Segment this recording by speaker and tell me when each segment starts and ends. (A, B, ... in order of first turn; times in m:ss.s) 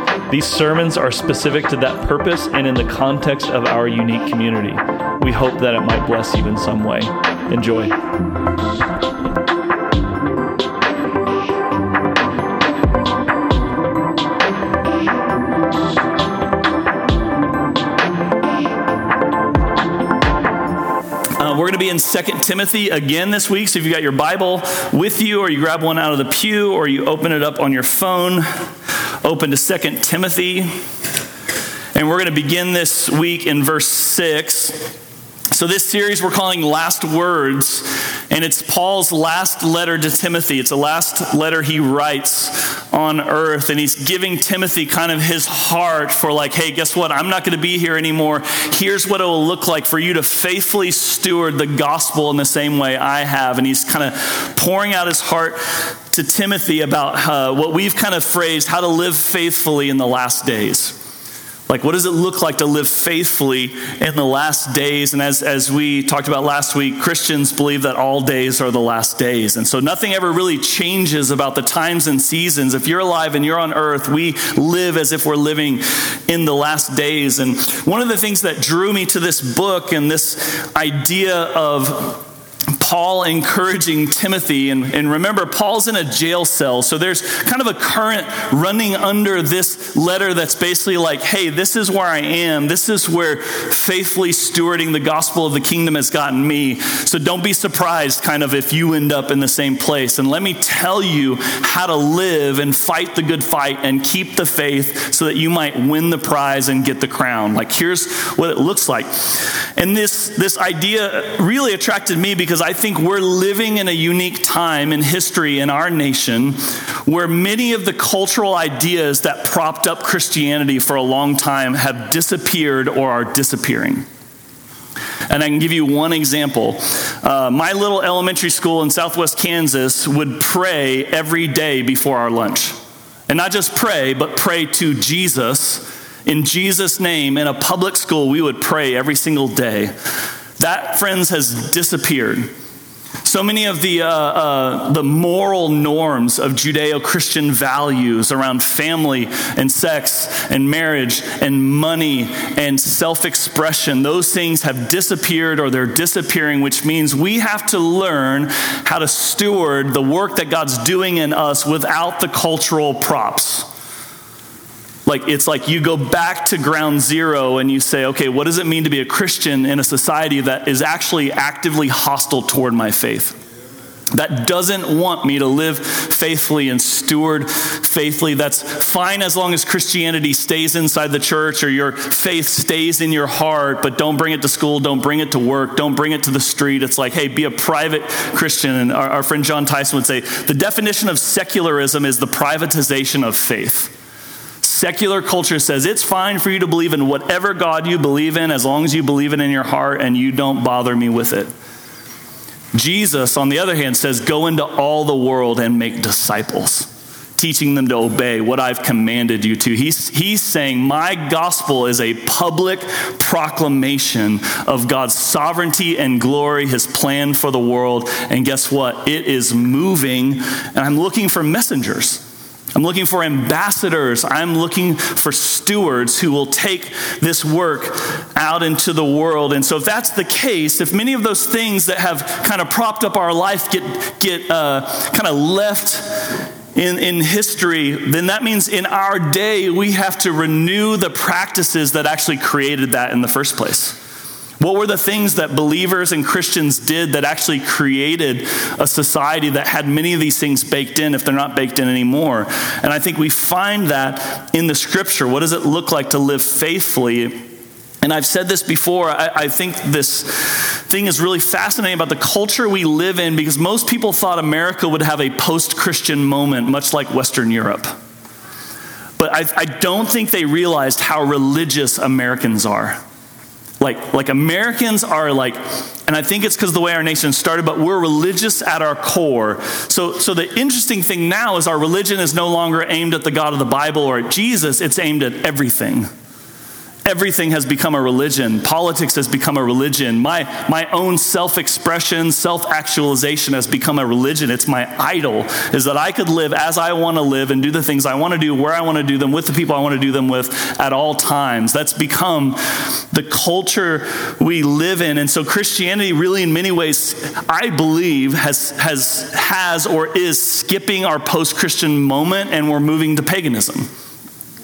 0:00.3-0:07.9 A
0:21.4-0:28.5 A
0:29.2-0:30.7 A
0:31.9-0:34.8 A
0:35.5-1:01.0 A
1:01.7-1:22.2 A
1:22.8-2:04.0 A
2:05.3-2:12.8 A
2:13.3-2:19.9 A
2:20.6-2:22.5 A
2:23.2-2:43.7 A
2:45.0-2:53.4 A
2:54.1-3:13.9 A
3:14.6-3:21.5 A
3:22.7-3:42.2 A
3:42.7-4:04.0 A
4:04.6-4:17.4 A
4:18.0-4:27.9 A
4:29.2-4:33.0 A
4:33.8-4:46.1 A
4:47.0-5:13.8 A